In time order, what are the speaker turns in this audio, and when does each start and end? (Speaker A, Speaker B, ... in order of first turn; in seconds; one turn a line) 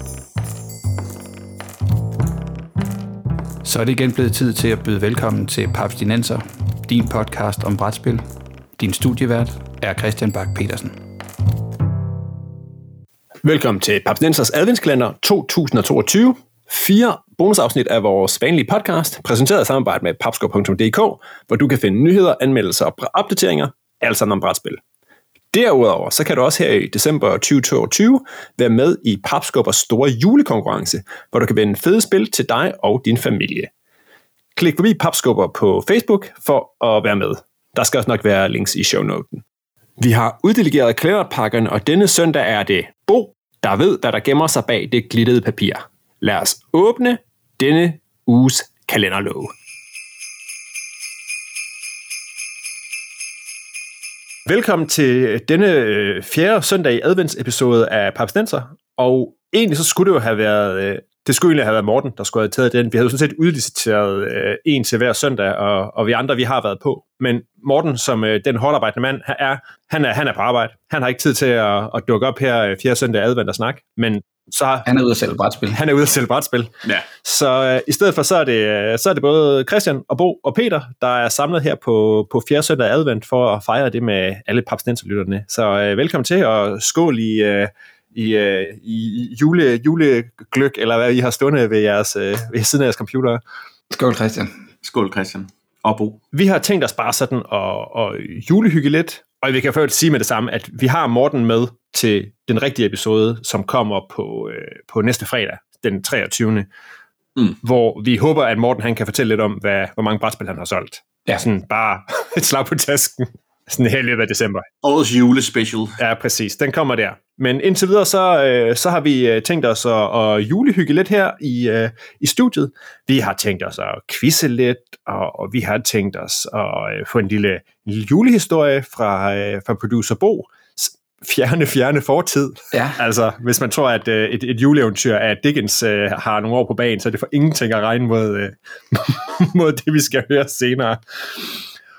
Speaker A: 3.6-8.2
Speaker A: 8.8-11.0
Speaker B: 13.4-24.8
Speaker B: 25.5-33.7
Speaker B: 34.5-39.4
Speaker B: 40.0-49.5
Speaker B: 54.5-74.9
Speaker A: 74.8-75.8
Speaker B: 75.7-76.7
Speaker B: 77.2-93.4
Speaker A: 93.9-94.5
Speaker C: 94.8-96.2
Speaker B: 96.3-106.7
Speaker B: 107.6-114.7
Speaker C: 114.8-116.0
Speaker B: 116.0-141.5
Speaker A: 132.7-133.0